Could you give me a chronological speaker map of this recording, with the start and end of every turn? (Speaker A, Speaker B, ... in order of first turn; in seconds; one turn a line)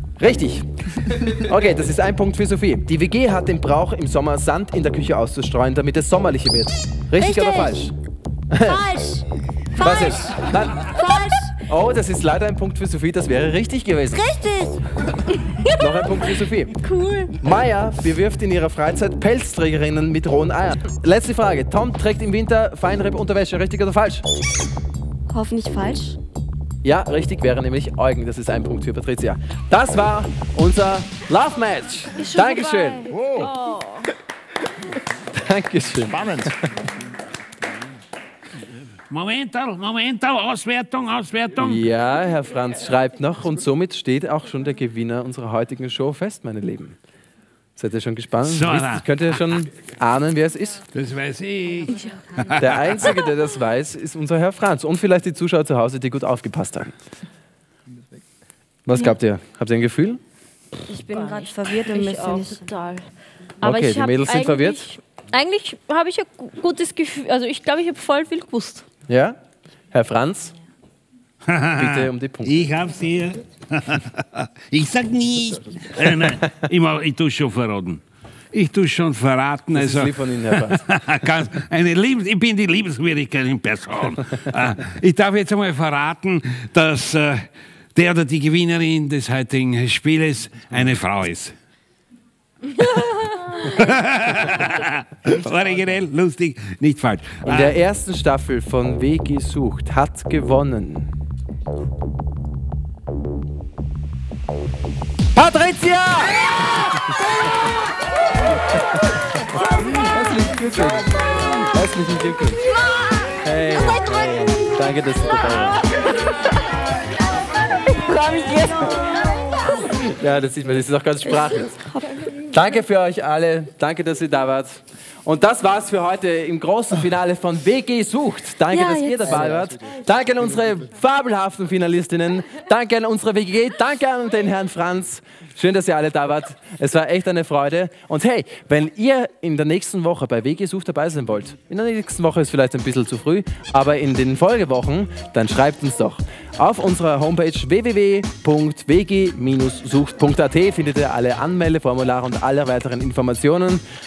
Speaker A: 0.2-7.9
Speaker B: 7.2-7.8
Speaker A: 8.5-8.8
Speaker A: 9.8-10.9
Speaker C: 10.9-11.4
Speaker A: 11.7-14.2
Speaker C: 14.2-14.5
Speaker A: 15.8-16.8
Speaker C: 16.8-17.3
Speaker A: 17.3-24.2
Speaker C: 25.3-26.2
Speaker A: 26.8-33.1
Speaker B: 32.2-32.8
Speaker B: 33.4-34.0
Speaker A: 35.3-36.5
Speaker D: 39.1-41.9
Speaker A: 41.6-47.0
Speaker A: 47.8-50.8
Speaker D: 48.4-49.1
Speaker D: 50.9-53.2
Speaker A: 52.6-56.9
Speaker A: 58.9-60.2
Speaker B: 60.9-63.0
Speaker C: 61.1-62.7
Speaker A: 63.6-64.9
Speaker B: 63.6-68.8
Speaker A: 69.1-69.4
Speaker A: 69.9-70.5
Speaker D: 71.5-78.0
Speaker A: 71.7-72.6
Speaker D: 78.5-91.5
Speaker A: 79.7-80.8
Speaker D: 92.7-97.8
Speaker A: 97.4-101.1
Speaker A: 105.3-106.5
Speaker A: 108.7-112.6
Speaker A: 113.4-116.2
Speaker A: 117.9-121.8
Speaker C: 121.2-122.2
Speaker A: 122.4-153.8
Speaker C: 128.7-129.4